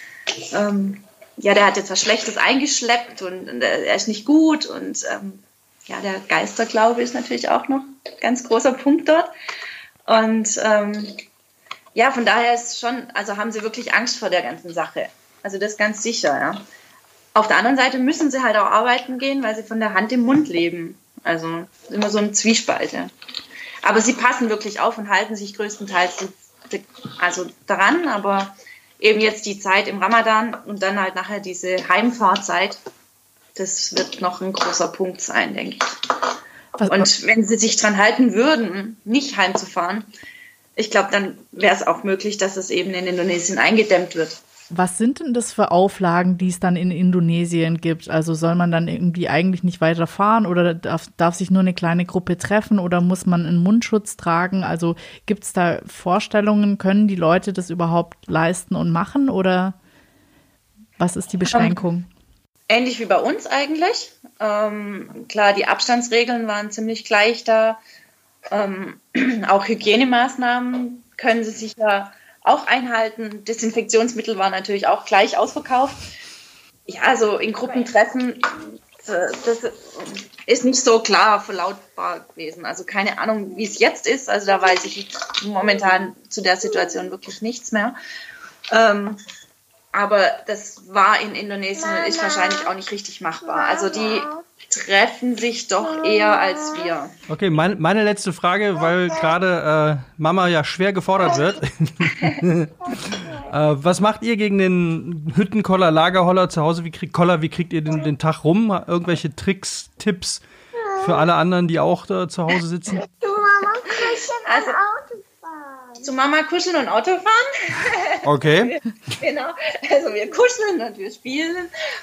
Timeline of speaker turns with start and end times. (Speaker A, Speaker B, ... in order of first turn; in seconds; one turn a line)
Speaker A: 0.5-9.3
Speaker A: 10.1-11.1
Speaker A: 11.9-16.6
Speaker A: 17.3-23.1
Speaker A: 23.8-32.8
Speaker A: 33.5-35.8
Speaker B: 36.8-37.1
Speaker A: 36.9-40.1
Speaker A: 40.8-44.4
Speaker B: 44.7-59.8
Speaker B: 61.0-62.1
Speaker A: 62.7-67.8
Speaker A: 68.5-76.0
Speaker A: 76.9-88.0
Speaker C: 86.7-87.1
Speaker A: 88.7-89.2
Speaker A: 89.9-97.1
Speaker C: 91.7-92.7
Speaker C: 93.4-94.4
Speaker C: 95.8-96.9
Speaker D: 97.3-110.4
Speaker C: 98.8-99.3
Speaker C: 101.2-101.5
Speaker C: 102.9-103.4
Speaker C: 110.8-111.3
Speaker D: 111.0-113.0
Speaker C: 112.9-116.1
Speaker A: 114.0-114.8
Speaker A: 116.0-121.7
Speaker D: 118.2-118.8